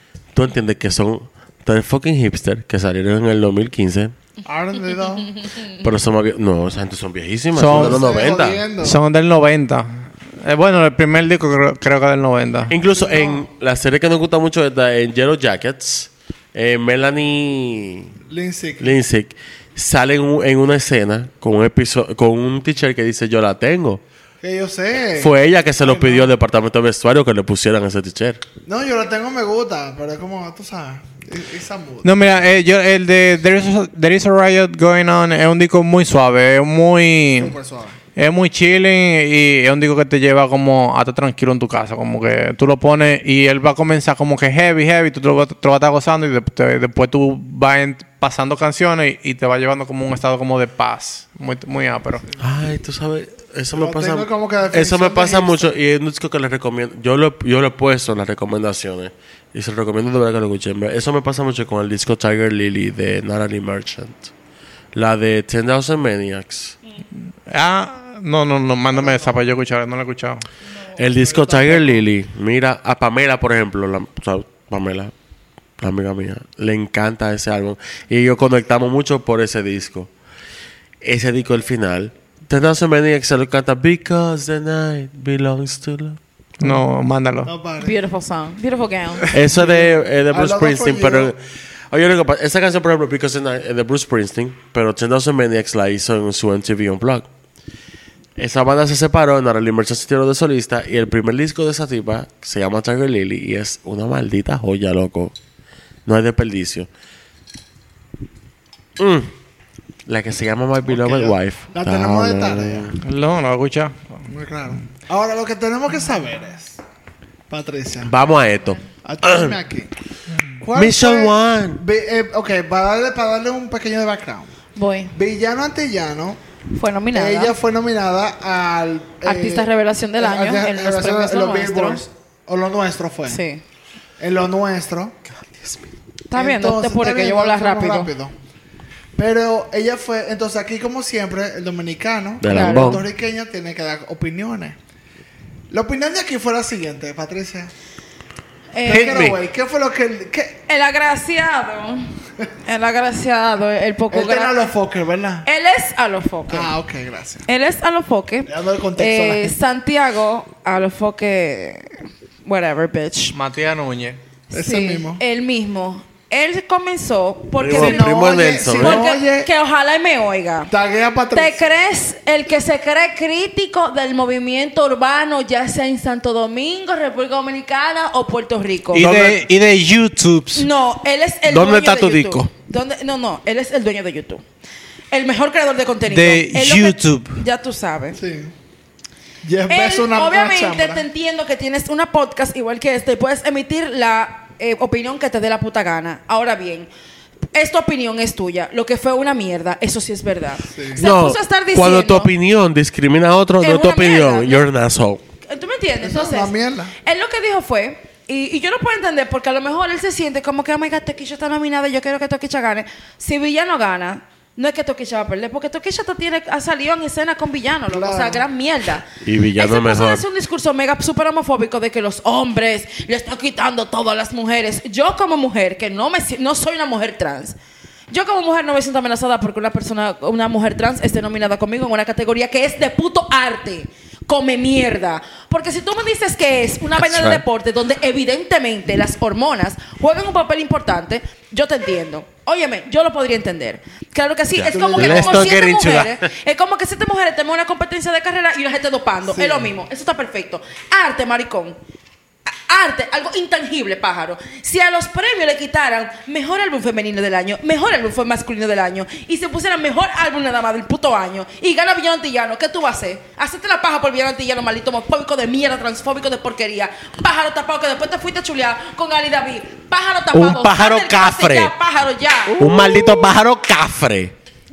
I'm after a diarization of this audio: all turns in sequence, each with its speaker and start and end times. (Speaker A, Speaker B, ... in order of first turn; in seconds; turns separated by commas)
Speaker A: 0.3-4.1, Speaker B: 4.5-5.4, Speaker C: 5.4-5.7, Speaker A: 5.8-8.6, Speaker D: 7.5-8.1, Speaker B: 7.7-9.0, Speaker D: 8.8-12.7, Speaker A: 12.7-18.1, Speaker C: 12.9-13.4, Speaker B: 18.3-19.0, Speaker A: 18.8-24.0, Speaker B: 24.4-26.3, Speaker A: 25.2-28.4, Speaker B: 28.6-32.2, Speaker D: 32.0-37.6, Speaker B: 37.4-38.0, Speaker D: 38.2-52.2, Speaker A: 52.4-64.3, Speaker B: 53.8-55.8, Speaker A: 65.0-66.8, Speaker D: 67.5-70.5, Speaker B: 68.9-69.4, Speaker B: 71.0-72.1, Speaker A: 71.0-75.1, Speaker A: 75.8-80.1, Speaker A: 81.0-86.2, Speaker D: 86.6-87.5, Speaker B: 87.5-88.0, Speaker C: 87.8-89.3, Speaker B: 89.2-91.3, Speaker A: 89.3-91.4, Speaker A: 91.9-97.3, Speaker A: 98.4-105.3, Speaker A: 106.1-106.9, Speaker A: 109.0-109.3, Speaker A: 110.1-113.0, Speaker B: 110.9-112.9, Speaker D: 113.0-114.2, Speaker B: 114.3-116.8, Speaker B: 117.5-118.1, Speaker A: 118.0-119.6, Speaker B: 119.0-119.9, Speaker B: 120.6-124.5, Speaker A: 120.7-121.8, Speaker C: 124.8-125.1, Speaker B: 125.1-126.4, Speaker C: 126.7-127.6, Speaker B: 127.1-133.4, Speaker C: 129.2-132.0, Speaker C: 133.3-133.6, Speaker B: 134.2-135.2, Speaker A: 135.5-135.8, Speaker C: 136.3-138.1, Speaker B: 136.3-138.3, Speaker B: 139.2-144.8, Speaker A: 142.4-143.1, Speaker C: 142.5-143.0, Speaker B: 145.7-147.7, Speaker C: 148.7-149.3, Speaker B: 148.8-150.6, Speaker A: 148.9-149.4, Speaker C: 150.7-152.1, Speaker C: 152.6-154.7, Speaker B: 154.1-155.5, Speaker C: 155.4-156.7, Speaker B: 156.5-157.4, Speaker C: 157.5-163.4, Speaker B: 158.5-159.6, Speaker D: 163.3-164.2, Speaker C: 164.5-170.7, Speaker B: 164.5-165.2, Speaker A: 167.6-169.1, Speaker B: 167.6-169.5, Speaker B: 170.7-171.6, Speaker C: 171.3-179.1, Speaker D: 178.9-180.7, Speaker A: 179.0-179.4, Speaker C: 180.5-184.4, Speaker A: 181.5-182.5, Speaker C: 185.1-188.2, Speaker D: 186.1-187.4, Speaker B: 188.2-188.5, Speaker B: 189.4-191.1, Speaker C: 189.7-196.9, Speaker C: 197.5-202.3, Speaker B: 200.7-201.0, Speaker A: 201.0-205.2, Speaker C: 203.6-204.7, Speaker C: 205.4-206.5, Speaker B: 206.0-206.9, Speaker C: 207.0-227.6, Speaker B: 217.9-218.4, Speaker A: 219.2-220.2, Speaker C: 228.1-251.8, Speaker A: 237.0-237.4, Speaker A: 244.5-246.2, Speaker B: 244.7-245.6, Speaker B: 249.3-249.7, Speaker C: 252.7-272.6, Speaker A: 270.3-271.7, Speaker B: 272.5-273.2, Speaker A: 272.6-274.3